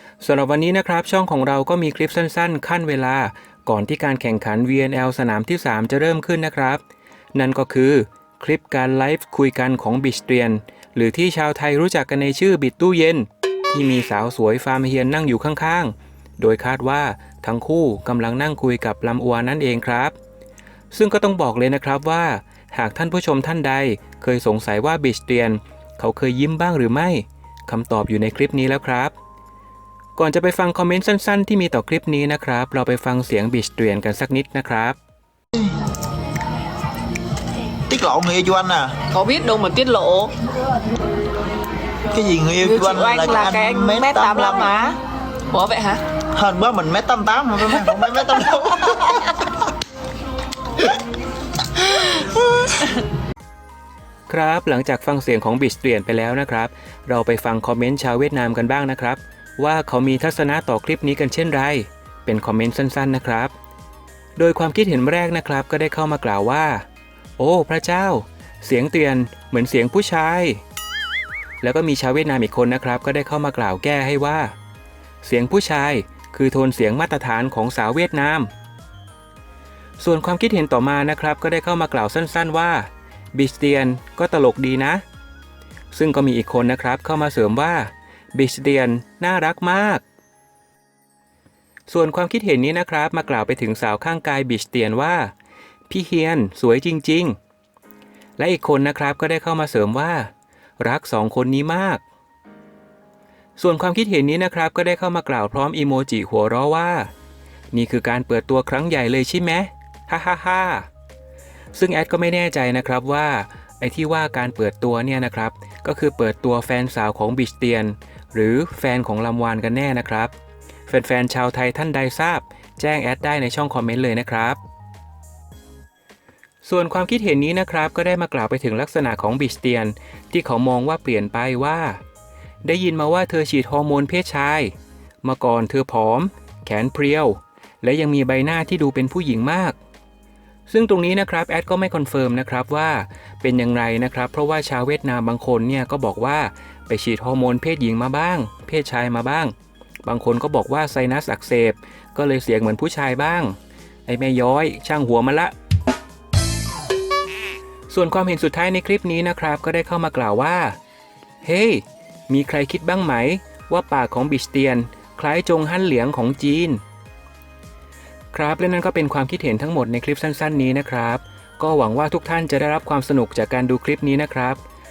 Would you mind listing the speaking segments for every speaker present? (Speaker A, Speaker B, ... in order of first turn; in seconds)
Speaker A: 0.2-6.8, 7.3-20.1, 20.9-29.1, 30.2-35.0, 54.3-63.5, 64.4-66.8, 67.4-70.6, 71.6-74.5, 75.2-78.5, 80.0-85.0, 85.9-90.0, 91.9-95.3, 95.9-97.4, 98.4-102.0, 103.6-107.1, 107.7-110.9, 111.7-120.3, 120.9-124.6, 126.6-132.0, 132.6-139.8, 140.7-155.5, 157.9-160.8, 161.4-166.8, 168.3-174.6
Speaker B: 37.9-39.0, 42.1-44.8, 46.3-49.2
Speaker C: 39.1-40.3, 42.6-45.0, 45.5-46.0